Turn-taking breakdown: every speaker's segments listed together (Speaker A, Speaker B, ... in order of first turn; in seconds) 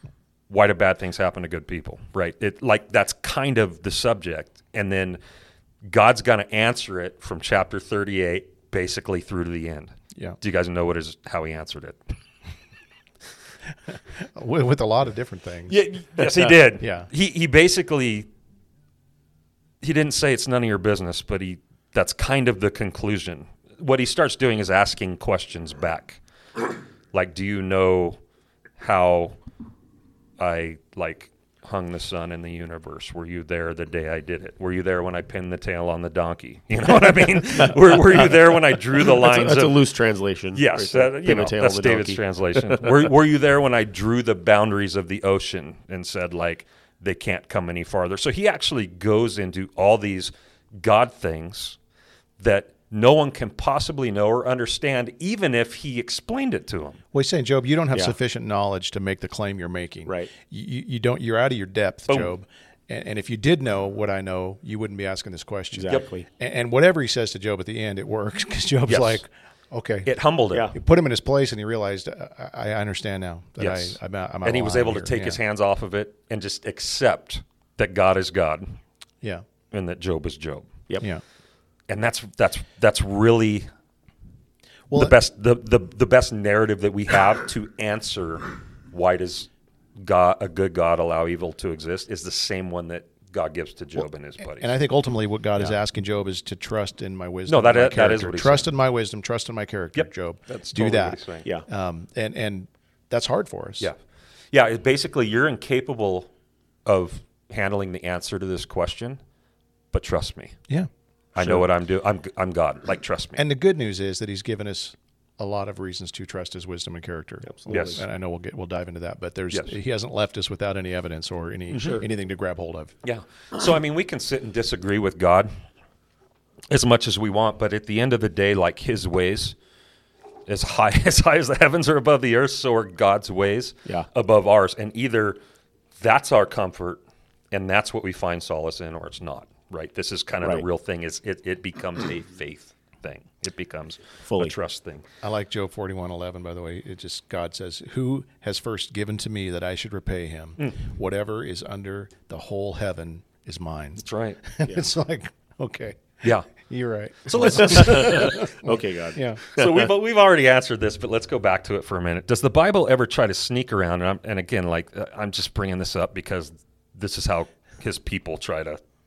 Speaker A: 0.5-5.2, 5.8-12.0, 15.7-18.3, 19.8-26.2, 27.1-28.2, 28.8-29.4, 30.4-39.9, 40.5-51.8, 52.4-57.0, 68.9-69.2, 70.0-70.7, 73.6-78.8, 79.7-80.7, 81.9-83.7, 84.9-94.7, 97.5-98.7, 99.9-101.5, 104.5-106.3, 106.8-109.2, 109.9-110.5, 111.3-113.4, 117.7-118.0, 123.0-125.5, 126.7-129.6, 130.5-135.4, 136.0-137.0, 137.5-145.1, 154.0-154.4, 156.2-156.5, 157.3-158.3, 159.5-168.8
Speaker B: 13.9-15.8, 16.8-17.1, 57.1-70.1, 70.7-75.4, 84.9-85.1, 94.5-103.9, 113.3-122.9, 145.2-159.4
Speaker C: 39.0-43.0, 60.0-60.3, 65.7-66.2, 111.4-111.6, 117.4-118.0, 121.7-122.0, 144.2-144.5, 157.3-159.9